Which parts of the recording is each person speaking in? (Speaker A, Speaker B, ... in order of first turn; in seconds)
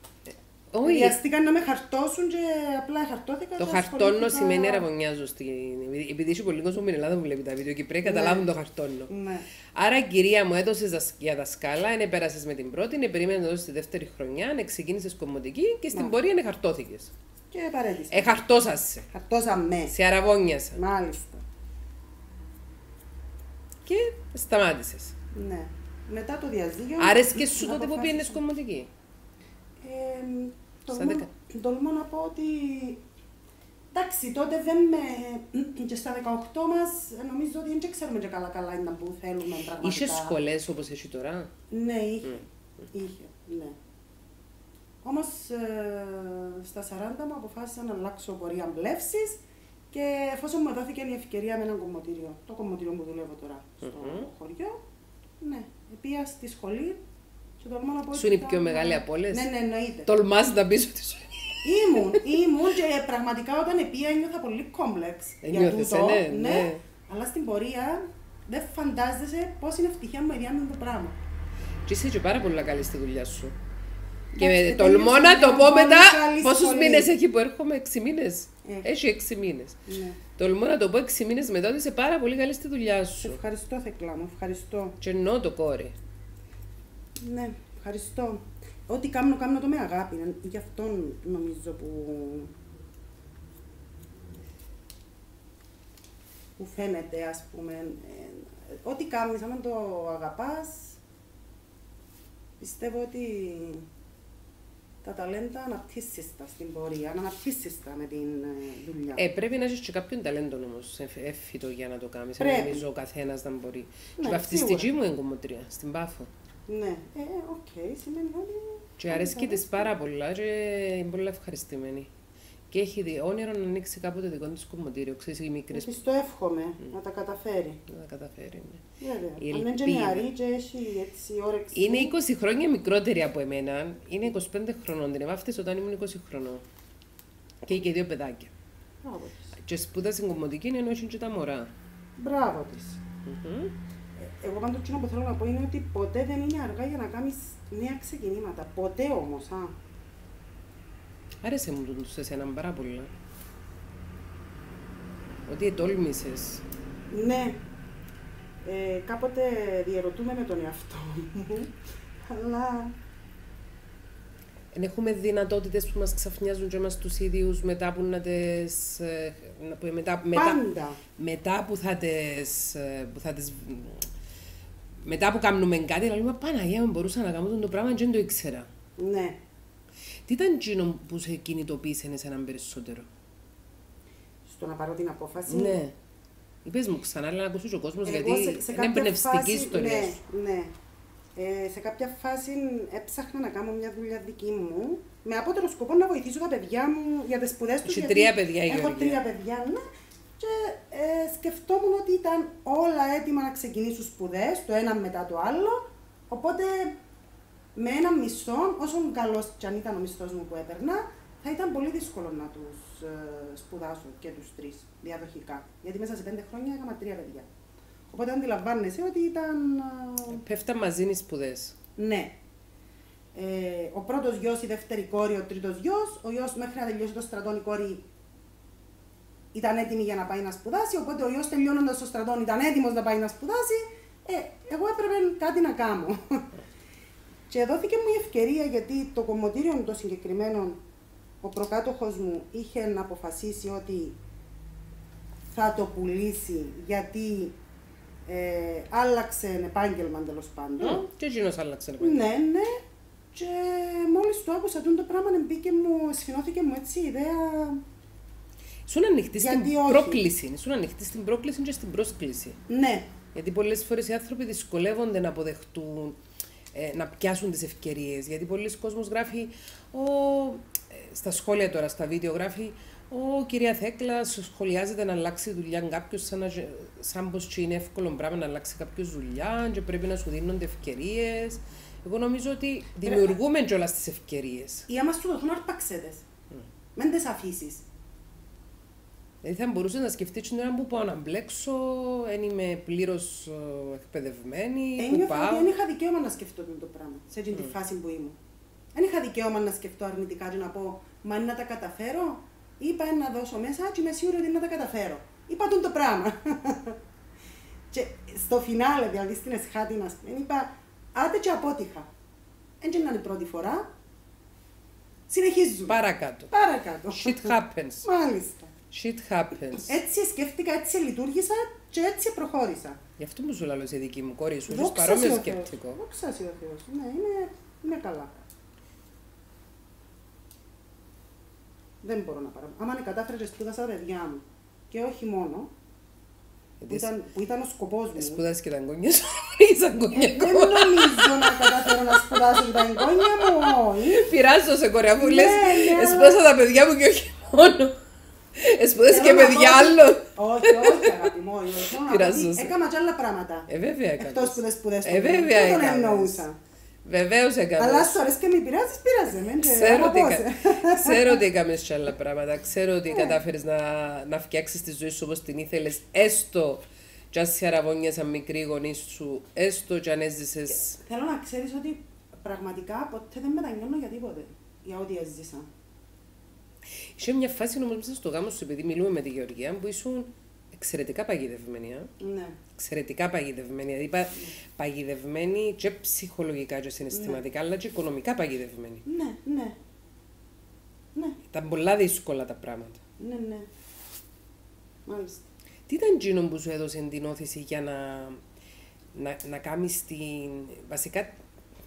Speaker A: 0.7-1.2, 3.6-9.1, 9.8-17.1, 18.1-19.1, 19.9-20.8, 23.9-25.1, 27.0-28.9, 30.9-31.3, 39.8-41.5, 53.8-54.3, 58.1-59.5, 60.0-62.2, 65.4-66.8, 71.9-73.5, 74.4-79.8, 80.3-83.4, 85.0-86.0, 109.2-116.3, 119.0-122.1, 122.7-126.0, 127.9-128.8, 129.4-130.3, 131.7-136.6, 137.6-138.5, 139.6-141.7, 143.3-143.7, 151.4-153.1, 155.5-156.6, 164.7-170.6, 171.2-174.1, 175.0-178.7, 180.3-183.1, 185.5-186.0, 186.7-190.2, 197.8-199.2, 220.3-221.8, 250.8-252.2, 258.9-262.6, 263.3-266.2, 266.7-284.9, 289.4-295.7, 315.9-316.5, 317.1-318.1, 318.9-320.0, 323.2-326.0, 336.8-337.1, 338.2-348.0, 348.6-351.3, 352.0-352.8, 353.7-356.5, 357.1-358.2, 359.6-371.0, 377.2-382.1, 382.8-389.0, 391.5-393.0, 395.9-398.4, 399.1-401.4
Speaker B: 0.8-4.9, 8.0-8.5, 9.1-9.5, 17.5-18.4, 19.1-19.9, 20.7-21.4, 25.3-28.4, 29.8-33.0, 33.9-40.4, 41.7-43.8, 45.0-49.4, 49.9-54.8, 55.4-57.0, 57.6-60.1, 61.6-71.2, 74.3-77.1, 79.9-80.2, 83.2-85.0, 87.2-92.5, 96.6-101.0, 102.6-103.8, 105.0-109.2, 112.4-112.8, 114.2-114.9, 116.7-120.0, 125.7-127.8, 129.0-132.1, 139.0-139.6, 142.2-143.0, 144.2-149.8, 157.1-157.6, 158.6-161.8, 162.3-162.9, 170.3-171.0, 179.0-179.4, 184.4-185.8, 188.1-190.8, 191.4-199.8, 200.4-207.0, 207.8-217.5, 218.1-220.4, 222.0-222.4, 223.3-228.1, 229.5-236.5, 237.5-240.8, 241.4-244.2, 245.5-247.6, 248.3-251.1, 252.0-252.8, 253.3-257.8, 259.4-260.2, 262.7-263.1, 283.0-283.4, 284.9-286.3, 287.0-287.9, 295.0-298.4, 298.9-307.0, 307.9-312.1, 312.8-313.9, 315.3-316.0, 316.5-318.7, 319.7-323.0, 324.7-328.3, 332.0-335.7, 336.9-338.4, 340.1-344.3, 345.2-346.4, 349.0-356.6, 357.8-361.4, 363.1-363.4, 371.0-375.7, 382.2-382.6, 387.1-387.4, 389.1-389.8, 391.1-391.4, 393.2-393.7, 395.1-395.5